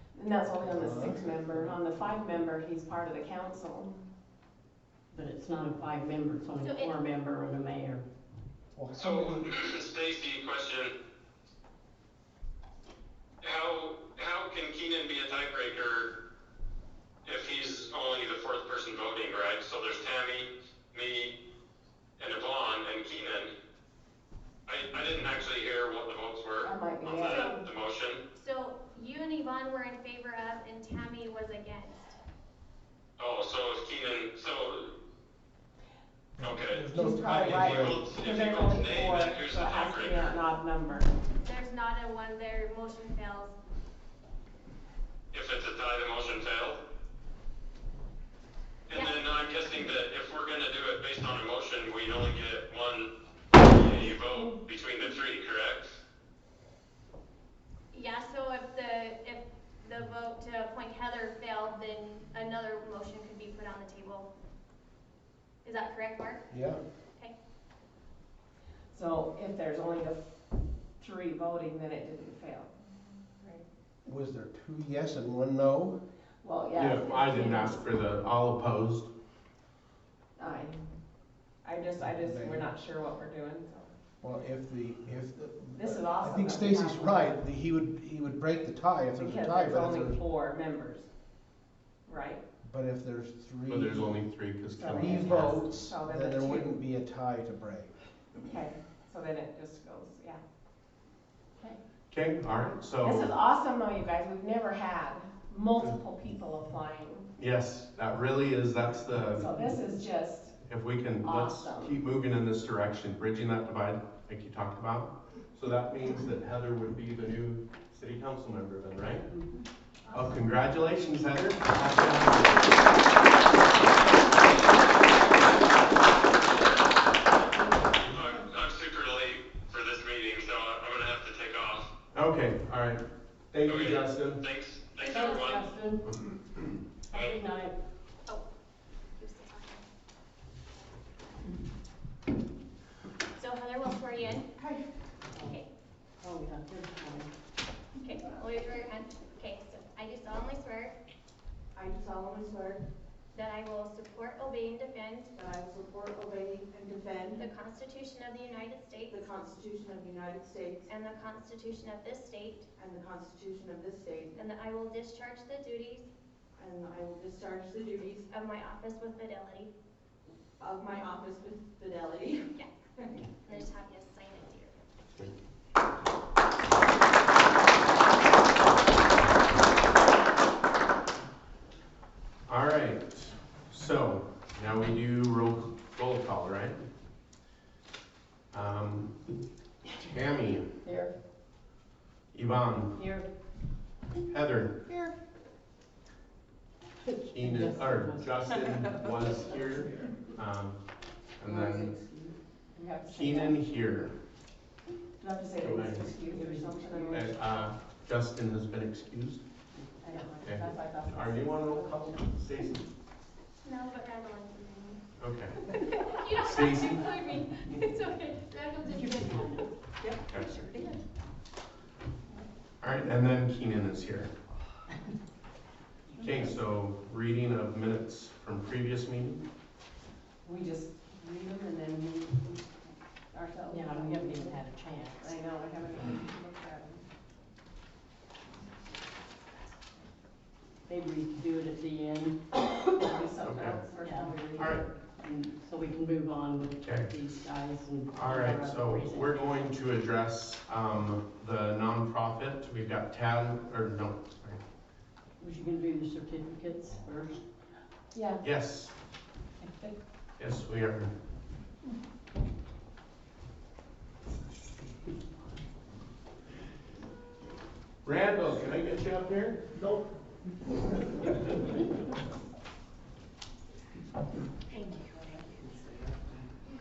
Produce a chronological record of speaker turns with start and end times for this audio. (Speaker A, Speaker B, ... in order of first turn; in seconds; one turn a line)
Speaker A: 0.1-4.0
Speaker B: 0.6-1.4
Speaker C: 5.1-8.0
Speaker D: 6.6-6.9
Speaker B: 8.7-9.5
Speaker E: 9.0-10.9
Speaker E: 13.4-16.1
Speaker E: 17.2-21.3
Speaker E: 22.2-23.5
Speaker E: 24.6-28.2
Speaker A: 26.6-27.6
Speaker D: 27.2-27.6
Speaker D: 28.3-32.2
Speaker E: 33.2-34.9
Speaker B: 36.4-38.0
Speaker E: 36.4-36.9
Speaker A: 36.9-41.1
Speaker E: 37.5-40.4
Speaker D: 41.4-43.5
Speaker E: 45.3-46.8
Speaker E: 48.9-55.9
Speaker D: 57.9-64.3
Speaker D: 65.6-66.5
Speaker B: 66.5-66.8
Speaker A: 68.9-70.3
Speaker A: 71.0-73.6
Speaker B: 74.0-76.0
Speaker A: 76.4-77.8
Speaker F: 76.7-79.1
Speaker A: 80.4-80.8
Speaker A: 81.6-83.9
Speaker B: 82.0-82.6
Speaker B: 84.2-90.2
Speaker A: 85.7-87.3
Speaker A: 89.2-91.1
Speaker A: 92.0-92.4
Speaker B: 92.6-94.2
Speaker F: 93.7-95.7
Speaker A: 94.7-96.8
Speaker B: 94.9-97.9
Speaker A: 98.4-100.4
Speaker F: 102.1-103.3
Speaker A: 103.0-107.3
Speaker F: 107.4-109.6
Speaker A: 109.3-110.6
Speaker F: 110.6-119.3
Speaker A: 111.2-112.0
Speaker C: 119.3-119.6
Speaker F: 120.1-123.1
Speaker F: 123.8-124.1
Speaker E: 124.4-131.9
Speaker C: 127.5-128.0
Speaker F: 132.1-134.4
Speaker E: 133.6-135.7
Speaker D: 135.0-135.5
Speaker C: 135.0-136.1
Speaker C: 137.1-137.7
Speaker D: 139.2-139.8
Speaker D: 143.3-144.4
Speaker C: 146.2-147.3
Speaker D: 148.0-150.9
Speaker G: 151.7-152.8
Speaker D: 153.3-155.3
Speaker G: 155.3-157.4
Speaker D: 157.4-159.3
Speaker G: 159.1-160.8
Speaker D: 160.9-162.7
Speaker G: 162.8-164.3
Speaker D: 164.3-166.1
Speaker G: 166.6-168.3
Speaker D: 168.3-169.7
Speaker G: 170.6-172.5
Speaker D: 173.3-174.8
Speaker F: 182.5-186.8
Speaker F: 188.5-189.2
Speaker F: 190.0-190.7
Speaker C: 190.8-191.1
Speaker F: 192.3-193.0
Speaker C: 192.9-193.2
Speaker F: 194.3-194.8
Speaker C: 197.0-198.8
Speaker F: 197.3-200.8
Speaker F: 201.4-201.9
Speaker C: 201.8-202.3
Speaker A: 202.1-203.6
Speaker F: 203.1-204.1
Speaker A: 205.2-207.4
Speaker F: 205.6-206.3
Speaker C: 206.3-207.2
Speaker F: 207.1-209.4
Speaker A: 210.0-212.2
Speaker F: 210.4-212.9
Speaker D: 213.6-215.0
Speaker F: 215.2-215.6
Speaker D: 215.6-219.7
Speaker F: 216.4-217.0
Speaker C: 218.9-219.7
Speaker F: 220.3-220.7
Speaker F: 222.8-224.3
Speaker F: 226.2-229.4
Speaker C: 226.2-226.5
Speaker A: 230.4-234.6
Speaker C: 233.7-235.4
Speaker A: 235.2-237.0
Speaker C: 240.9-242.4
Speaker A: 243.0-244.9
Speaker F: 243.4-243.8
Speaker C: 243.9-244.5
Speaker F: 244.5-244.8
Speaker C: 245.2-249.7
Speaker F: 246.8-247.1
Speaker F: 248.1-254.6
Speaker C: 255.4-257.4
Speaker A: 258.1-258.4
Speaker F: 258.4-258.9
Speaker A: 259.6-259.9
Speaker F: 260.4-261.1
Speaker F: 268.0-269.7